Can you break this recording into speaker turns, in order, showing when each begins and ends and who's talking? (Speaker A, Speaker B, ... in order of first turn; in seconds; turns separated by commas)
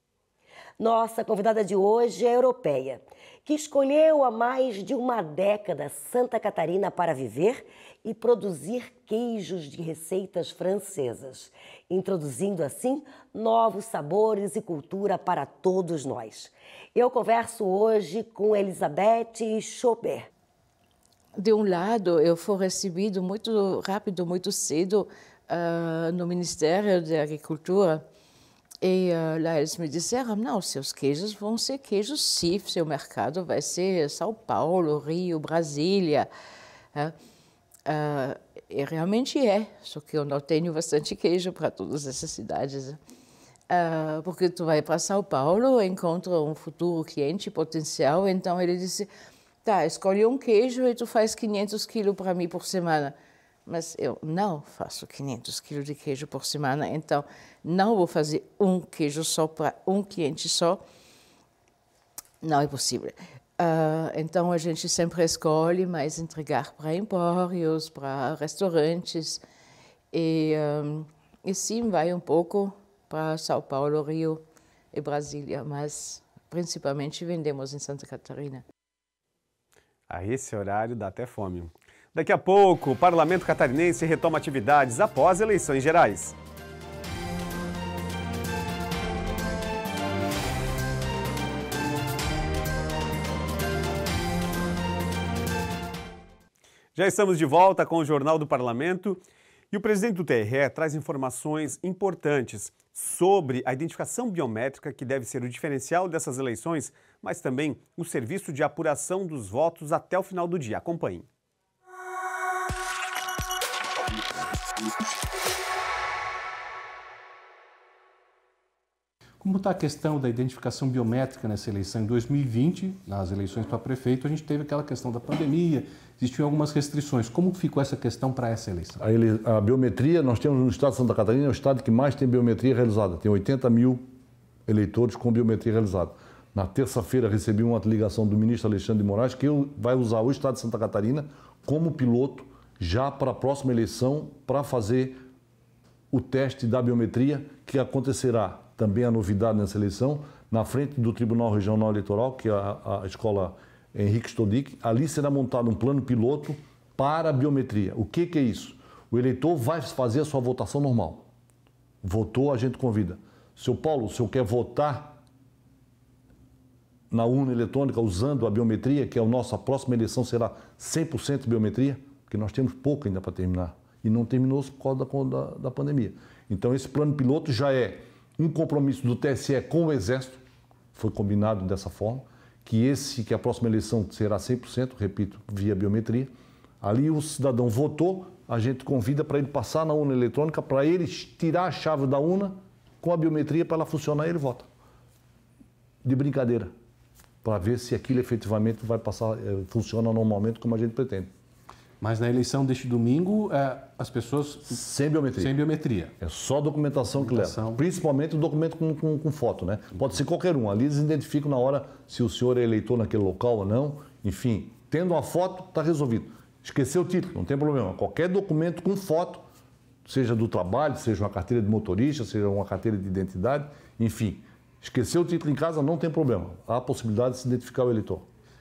Speaker A: 0.8-20.3, Speaker B: 21.4-28.0, Speaker B: 28.8-36.3, Speaker B: 37.9-43.0, Speaker B: 43.7-49.1, Speaker B: 49.6-53.1, Speaker B: 53.6-60.8, Speaker B: 62.4-69.4, Speaker B: 70.1-74.4, Speaker B: 74.9-78.6, Speaker C: 80.1-86.3, Speaker C: 96.9-99.2, Speaker C: 99.7-111.3, Speaker D: 119.4-129.0, Speaker E: 129.0-134.1, Speaker E: 134.7-145.2, Speaker E: 146.1-161.3, Speaker E: 162.0-165.2, Speaker E: 167.1-180.4, Speaker E: 180.9-194.7, Speaker E: 196.0-196.7, Speaker E: 197.4-201.3, Speaker D: 202.0-204.8, Speaker E: 204.7-205.5, Speaker D: 205.3-206.1, Speaker E: 206.2-219.4, Speaker D: 207.2-207.8, Speaker E: 220.0-228.3